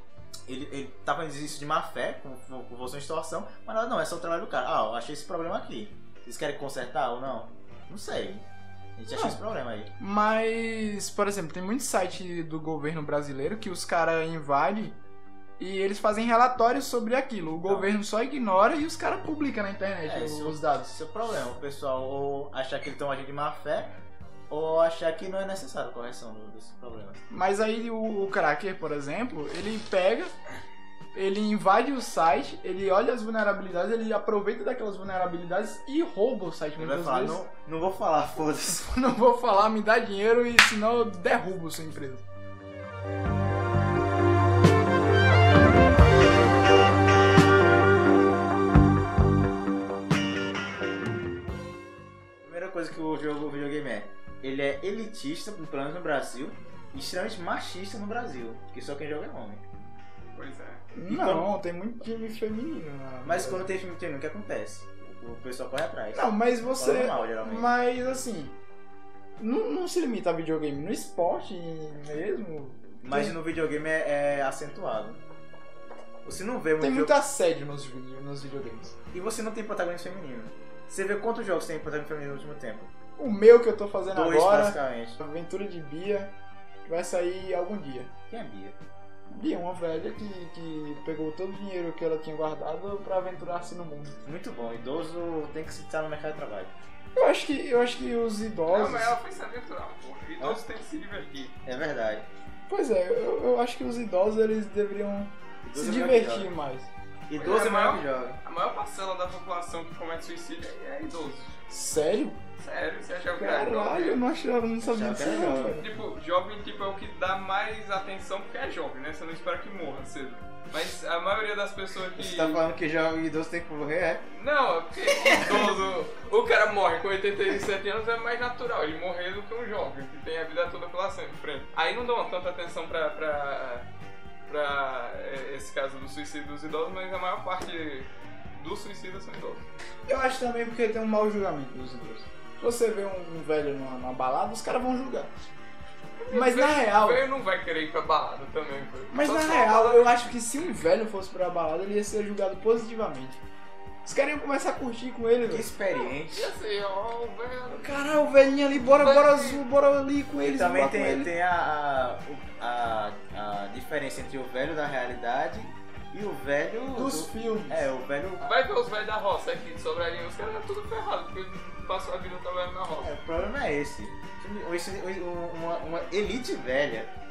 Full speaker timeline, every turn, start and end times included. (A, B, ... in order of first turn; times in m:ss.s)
0:00.5-0:09.9 A
0:10.0-0:15.0 B
0:15.6-0:21.0 B
0:17.6-0:17.9 A
0:20.0-0:24.0 A
0:24.5-0:27.2 A
0:27.3-0:30.3 B
0:31.1-0:37.4 B
0:36.8-0:38.9 A
0:38.8-0:42.2 B
0:52.4-0:59.6 A
1:00.3-1:00.9 C
1:01.0-1:03.6 B
1:01.1-1:01.5 A
1:03.2-1:07.7 A
1:06.1-1:08.6 B
1:09.4-1:13.4 B
1:13.0-1:15.2 A
1:16.2-1:17.2 A
1:16.8-1:19.0 B
1:19.1-1:22.9 A
1:23.2-1:26.3 B
1:24.1-1:25.2 A
1:26.8-1:28.1 B
1:28.3-1:28.8 A
1:29.3-1:34.2 B
1:34.2-1:36.7 A
1:37.2-1:39.2 B
1:38.7-1:41.6 C
1:41.6-1:42.3 A
1:42.7-1:46.9 B
1:45.6-1:46.5 A
1:47.3-1:48.4 A
1:47.4-1:51.6 C
1:51.7-1:52.4 B
1:52.6-1:54.2 C
1:53.4-1:55.9 B
1:54.8-1:55.8 A
1:55.8-2:02.6 C
2:02.2-2:04.3 A
2:04.3-2:13.9 C
2:14.5-2:19.7 C
2:20.1-2:25.3 B
2:26.2-2:30.1 C
2:26.3-2:27.2 B
2:29.1-2:33.4 B
2:34.0-2:35.7 B
2:35.5-2:36.5 A
2:35.9-2:38.0 C
2:37.7-2:41.3 B
2:39.0-2:39.6 C
2:40.4-2:48.5 A
2:46.9-2:47.9 B
2:48.4-2:53.1 C
2:53.0-2:57.1 A